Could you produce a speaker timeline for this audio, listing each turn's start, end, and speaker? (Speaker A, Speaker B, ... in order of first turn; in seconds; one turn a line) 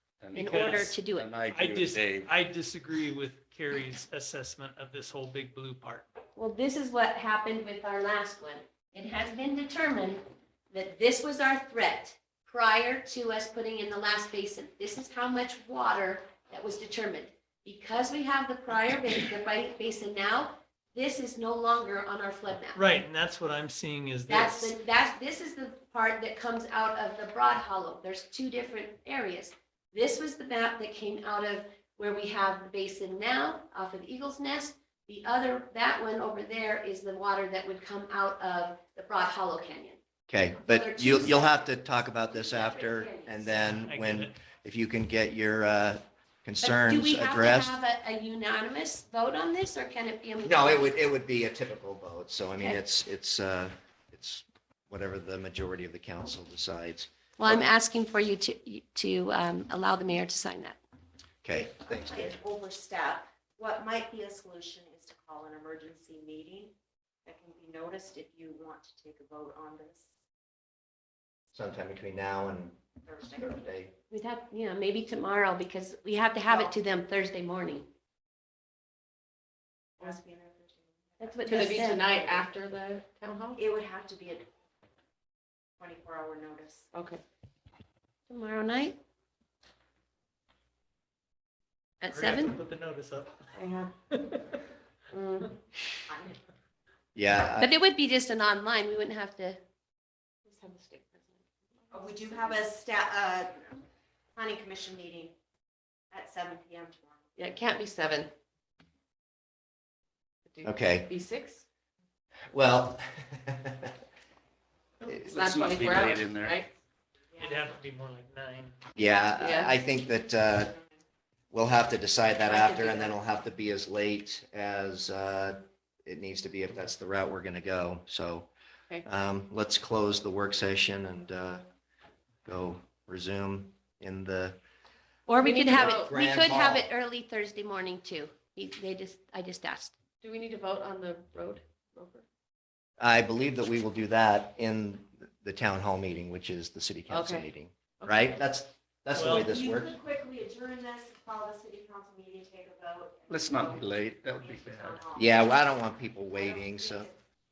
Speaker A: 0.2-2.3
Speaker B: 0.3-1.3
Speaker C: 0.4-0.9
Speaker C: 1.5-6.1
Speaker B: 6.3-22.8
Speaker C: 22.7-24.7
Speaker B: 24.3-40.0
Speaker D: 40.3-47.7
Speaker B: 40.6-43.6
Speaker C: 43.6-44.3
Speaker B: 46.6-50.9
Speaker D: 50.4-57.6
Speaker B: 57.4-60.8
Speaker D: 61.4-62.4
Speaker E: 61.9-66.7
Speaker E: 67.2-70.1
Speaker D: 71.5-73.9
Speaker E: 73.0-73.6
Speaker B: 74.1-77.9
Speaker E: 76.5-76.7
Speaker E: 80.0-82.4
Speaker B: 81.2-82.0
Speaker F: 81.5-83.6
Speaker E: 83.5-84.5
Speaker E: 85.8-86.9
Speaker F: 86.9-87.2
Speaker B: 88.3-89.0
Speaker B: 92.0-92.6
Speaker C: 92.1-93.5
Speaker F: 93.5-93.9
Speaker C: 94.1-94.5
Speaker F: 95.1-95.6
Speaker E: 96.1-96.4
Speaker D: 97.1-97.7
Speaker B: 97.6-99.6
Speaker F: 100.5-102.6
Speaker E: 101.9-103.7
Speaker E: 104.3-105.3
Speaker E: 106.1-107.3
Speaker F: 107.4-108.3
Speaker F: 110.5-111.6
Speaker D: 110.6-111.1
Speaker D: 112.5-113.9
Speaker F: 115.0-116.7
Speaker A: 115.2-116.6
Speaker E: 117.3-117.6
Speaker C: 117.4-118.8
Speaker D: 119.0-120.8
Speaker F: 119.4-119.7
Speaker D: 121.5-128.5
Speaker F: 122.5-123.0
Speaker D: 129.0-131.6
Speaker D: 132.4-134.6
Speaker B: 135.3-139.9
Speaker F: 135.4-136.1
Speaker D: 135.7-136.8
Speaker F: 140.2-142.2
Speaker D: 143.0-150.0
Speaker F: 147.1-147.5
Speaker C: 149.1-149.5
Speaker E: 149.4-155.6
Speaker A: 153.3-155.1
Speaker D: 155.1-157.1
Speaker E: 156.3-157.2